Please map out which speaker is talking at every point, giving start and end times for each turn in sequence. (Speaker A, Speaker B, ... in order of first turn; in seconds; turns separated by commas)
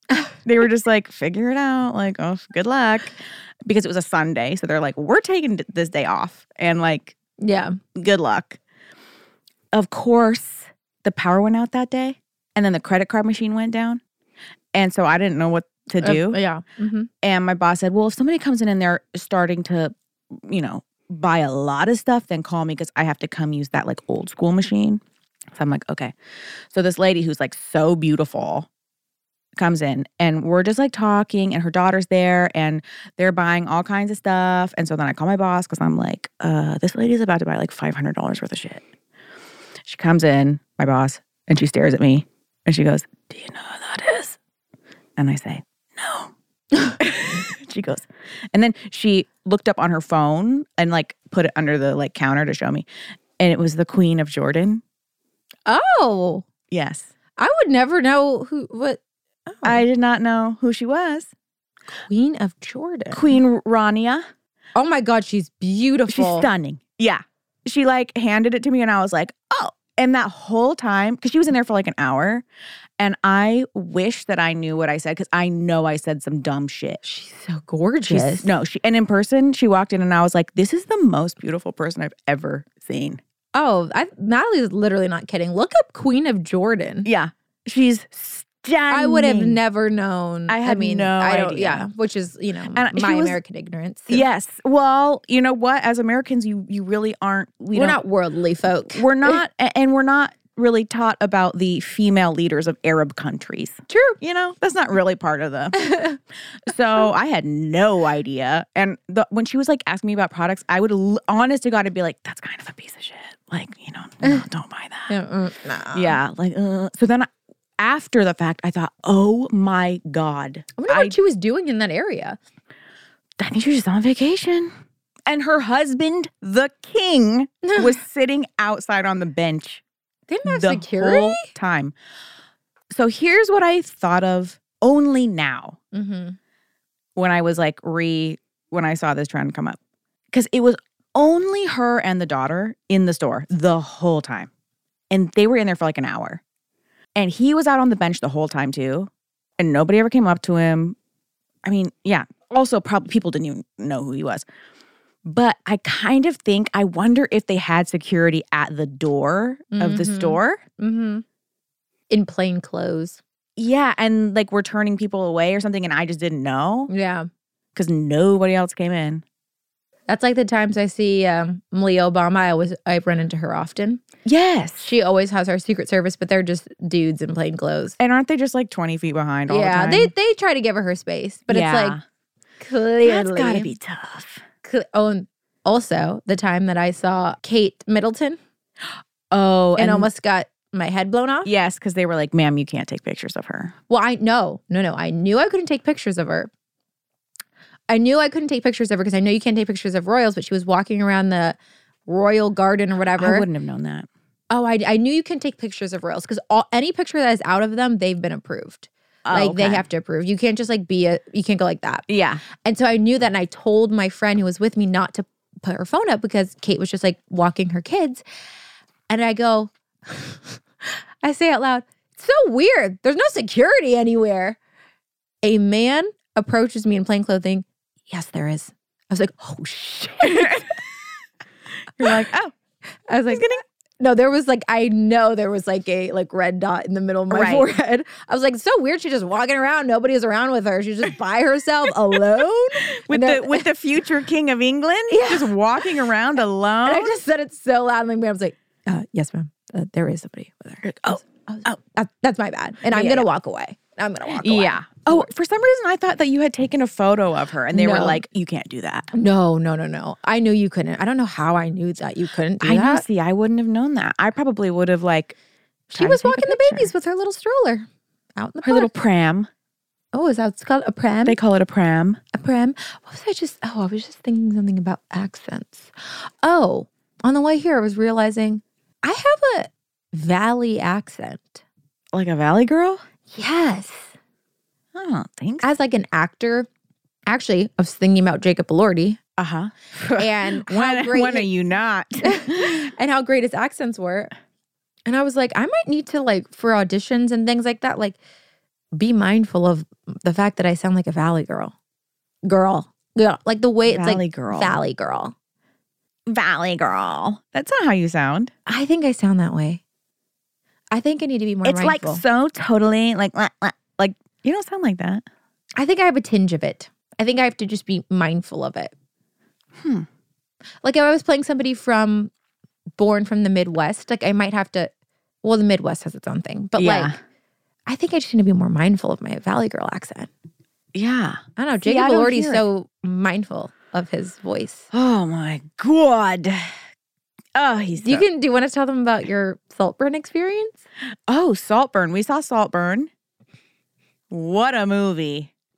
Speaker A: 0.4-7.1, Speaker B: 7.4-7.8, Speaker A: 7.9-8.6, Speaker A: 9.7-14.0, Speaker A: 14.7-16.4, Speaker B: 16.0-17.1, Speaker A: 17.2-25.0, Speaker A: 25.5-26.1, Speaker A: 26.7-28.7, Speaker A: 29.6-38.8, Speaker A: 39.9-44.4, Speaker A: 45.2-46.3, Speaker A: 47.0-52.9, Speaker A: 53.4-54.8, Speaker B: 55.7-56.5, Speaker A: 56.7-57.1, Speaker B: 57.4-59.8, Speaker A: 59.6-61.3, Speaker B: 62.1-63.4, Speaker A: 63.1-64.2, Speaker B: 64.7-66.5, Speaker A: 66.1-72.4, Speaker A: 73.0-77.0, Speaker B: 77.0-78.5, Speaker A: 78.1-83.2, Speaker B: 83.5-87.1, Speaker A: 87.0-89.6, Speaker B: 88.9-94.2, Speaker A: 90.5-91.9, Speaker A: 92.7-93.4, Speaker A: 94.1-98.0, Speaker B: 97.7-99.4, Speaker A: 98.9-105.8, Speaker B: 103.9-104.2, Speaker B: 105.7-106.2, Speaker A: 106.7-115.1, Speaker B: 115.1-116.2, Speaker A: 115.9-117.3, Speaker A: 117.8-121.1, Speaker B: 120.8-122.4, Speaker A: 123.4-124.7, Speaker A: 125.3-129.8, Speaker B: 127.6-128.0, Speaker B: 130.3-131.5, Speaker A: 130.4-131.9, Speaker A: 132.9-135.8, Speaker B: 135.9-136.4, Speaker A: 137.2-139.8, Speaker A: 140.3-144.5, Speaker A: 145.1-146.4, Speaker A: 147.1-150.9, Speaker A: 151.6-154.4, Speaker A: 155.2-160.6, Speaker B: 159.7-161.2, Speaker B: 162.1-163.2, Speaker A: 163.6-166.9, Speaker B: 166.9-167.3, Speaker A: 167.7-169.2, Speaker B: 170.1-174.0, Speaker A: 174.2-174.9, Speaker B: 174.8-178.0, Speaker A: 178.0-180.1, Speaker B: 179.5-182.0, Speaker A: 181.5-182.0, Speaker B: 182.6-183.7, Speaker A: 183.0-184.4, Speaker B: 184.6-188.4, Speaker A: 189.3-190.1, Speaker B: 189.8-191.5, Speaker A: 191.4-193.7, Speaker B: 193.9-196.5, Speaker B: 197.9-203.4, Speaker A: 203.2-204.1, Speaker B: 204.5-212.1, Speaker A: 209.2-209.8, Speaker A: 212.1-212.4, Speaker B: 212.6-218.2, Speaker B: 219.1-224.6, Speaker B: 225.4-230.7, Speaker A: 230.2-230.7, Speaker A: 232.0-232.5, Speaker B: 233.1-243.7, Speaker A: 233.3-233.6, Speaker A: 237.3-237.7, Speaker A: 242.9-247.2, Speaker B: 245.1-245.9, Speaker B: 246.8-255.3, Speaker A: 250.8-251.8, Speaker A: 252.9-253.3, Speaker A: 254.4-259.1, Speaker B: 257.7-258.2, Speaker B: 259.1-263.0, Speaker A: 262.6-265.3, Speaker B: 265.9-268.9, Speaker A: 265.9-266.9, Speaker A: 268.6-269.5, Speaker B: 270.1-271.4, Speaker A: 271.2-272.2, Speaker B: 272.3-275.9, Speaker B: 276.4-281.6, Speaker A: 282.1-283.0, Speaker B: 283.3-284.1, Speaker A: 284.9-285.6, Speaker B: 285.6-286.7, Speaker B: 287.3-289.2, Speaker A: 289.4-292.9, Speaker B: 290.1-291.5, Speaker B: 292.2-294.3, Speaker B: 295.1-298.2, Speaker B: 298.9-301.7, Speaker B: 302.4-305.3, Speaker A: 303.9-304.8, Speaker A: 306.3-308.5, Speaker B: 308.7-309.8, Speaker B: 310.9-312.2, Speaker A: 311.6-315.2, Speaker B: 315.8-318.9, Speaker A: 319.8-320.1, Speaker B: 320.8-322.3, Speaker B: 323.0-324.9, Speaker B: 325.4-327.2, Speaker A: 326.8-327.2, Speaker B: 327.9-330.3, Speaker A: 330.9-332.6, Speaker B: 331.6-334.9, Speaker A: 334.9-336.7, Speaker A: 337.5-338.2, Speaker B: 338.0-340.8, Speaker A: 341.3-343.1, Speaker A: 344.3-345.5